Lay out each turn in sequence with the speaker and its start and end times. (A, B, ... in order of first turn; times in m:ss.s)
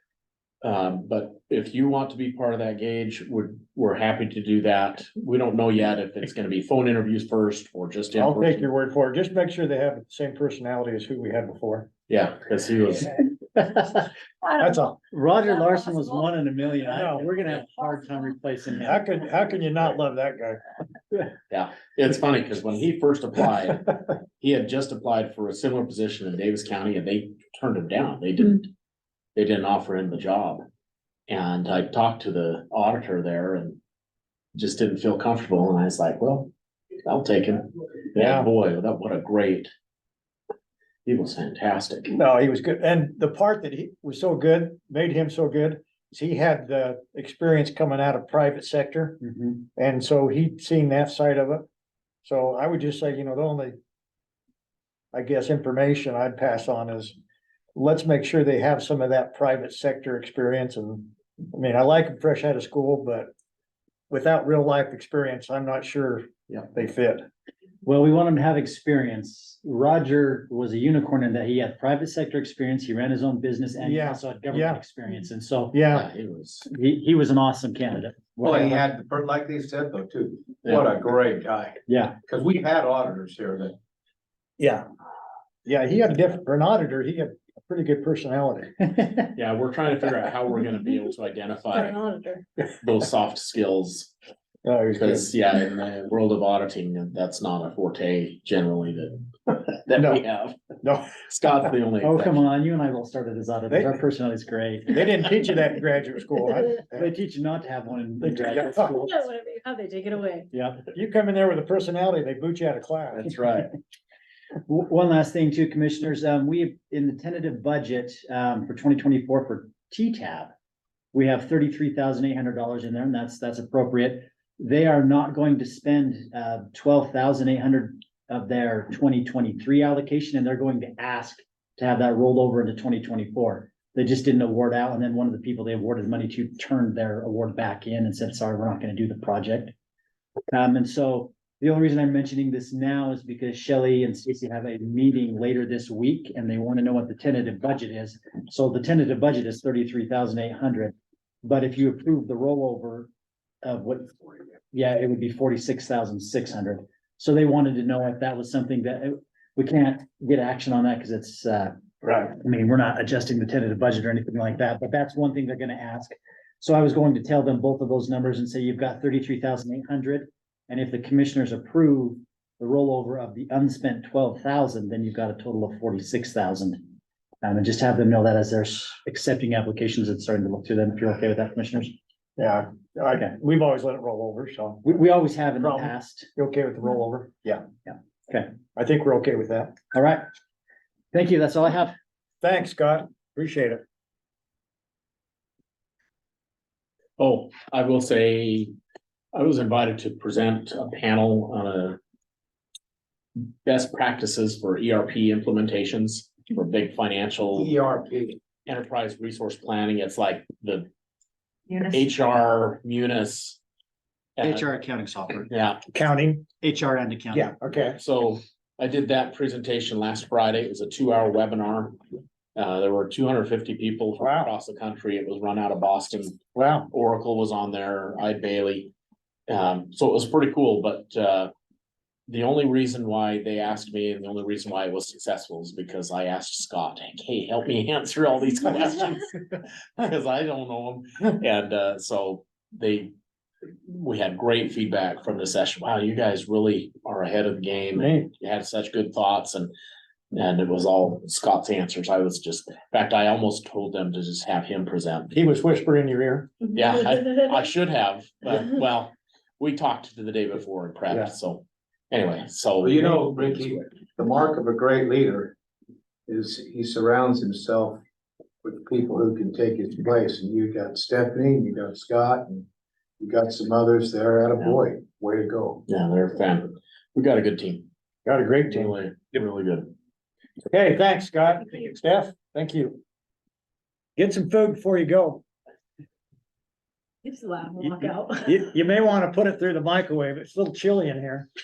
0:00.6-0:08.7 A
0:08.2-0:11.9 B
0:12.1-0:13.3 A
0:13.6-0:14.1 C
0:14.4-0:16.3 D
0:14.6-0:15.0 B
0:15.1-0:19.1 C
0:16.9-0:17.3 B
0:17.5-0:18.2 D
0:18.8-0:20.6 B
0:21.5-0:28.7 A
0:29.4-0:30.6 A
0:31.3-0:33.8 A
0:34.6-0:36.5 A
0:37.0-0:39.7 A
0:38.2-0:38.5 B
0:41.1-0:42.1 A
0:42.1-0:49.2 B
0:49.2-0:49.6 C
0:49.8-0:51.7 B
0:52.2-0:53.8 B
0:55.1-0:57.2 B
0:57.8-1:03.3 B
1:04.1-1:07.3 B
1:07.8-1:15.8 C
1:13.8-1:14.8 B
1:15.7-1:16.1 B
1:15.9-1:16.7 A
1:16.6-1:18.8 C
1:18.4-1:23.8 E
1:21.9-1:22.2 C
1:24.6-1:24.8 B
1:25.7-1:29.0 B
1:29.4-1:32.0 A
1:31.7-1:32.4 D
1:32.7-1:34.1 A
1:34.6-1:35.3 B
1:35.0-1:40.6 A
1:39.9-1:40.2 B
1:40.8-1:41.2 B
1:41.2-1:42.5 A
1:42.0-1:45.1 C
1:43.7-1:44.0 B
1:44.9-1:47.1 B
1:46.9-1:49.3 C
1:48.2-1:49.0 B
1:49.0-1:50.5 D
1:50.5-1:50.8 C
1:50.8-1:53.3 B
1:53.2-1:53.7 A
1:54.7-2:00.5 C
2:01.1-2:19.7 C
2:20.5-2:33.1 C
2:33.6-2:56.8 C
2:57.4-3:02.0 C
3:02.4-3:05.0 B
3:04.8-3:06.3 C
3:05.6-3:07.6 B
3:07.9-3:08.5 C
3:08.8-3:09.8 B
3:09.9-3:10.3 C
3:11.1-3:12.0 C
3:12.4-3:13.8 B
3:17.2-3:18.7 A
3:19.3-3:22.0 A
3:23.6-3:27.8 A
3:27.6-3:28.4 E
3:28.7-3:30.9 A
3:31.8-3:33.6 A
3:34.4-3:34.7 A
3:34.4-3:35.5 C
3:35.5-3:35.8 A
3:35.9-3:36.5 B
3:36.6-3:37.5 C
3:37.3-3:38.0 B
3:38.0-3:42.0 A
3:42.6-3:46.4 A
3:44.2-3:44.5 B
3:46.6-3:46.9 B
3:46.9-3:48.9 A
3:49.5-3:51.5 A
3:52.3-3:59.4 A
4:00.0-4:03.1 A
4:03.9-4:09.7 A
4:08.0-4:08.3 B
4:10.3-4:15.3 A
4:15.3-4:16.5 B
4:16.7-4:23.8 A
4:22.8-4:25.6 E
4:26.3-4:28.0 E
4:28.6-4:32.7 E
4:33.2-4:35.8 E
4:35.9-4:37.9 A
4:38.2-4:39.0 B
4:38.7-4:39.9 A
4:40.7-4:43.0 B
4:44.2-4:45.4 B
4:47.2-4:48.4 D
4:47.9-4:51.5 B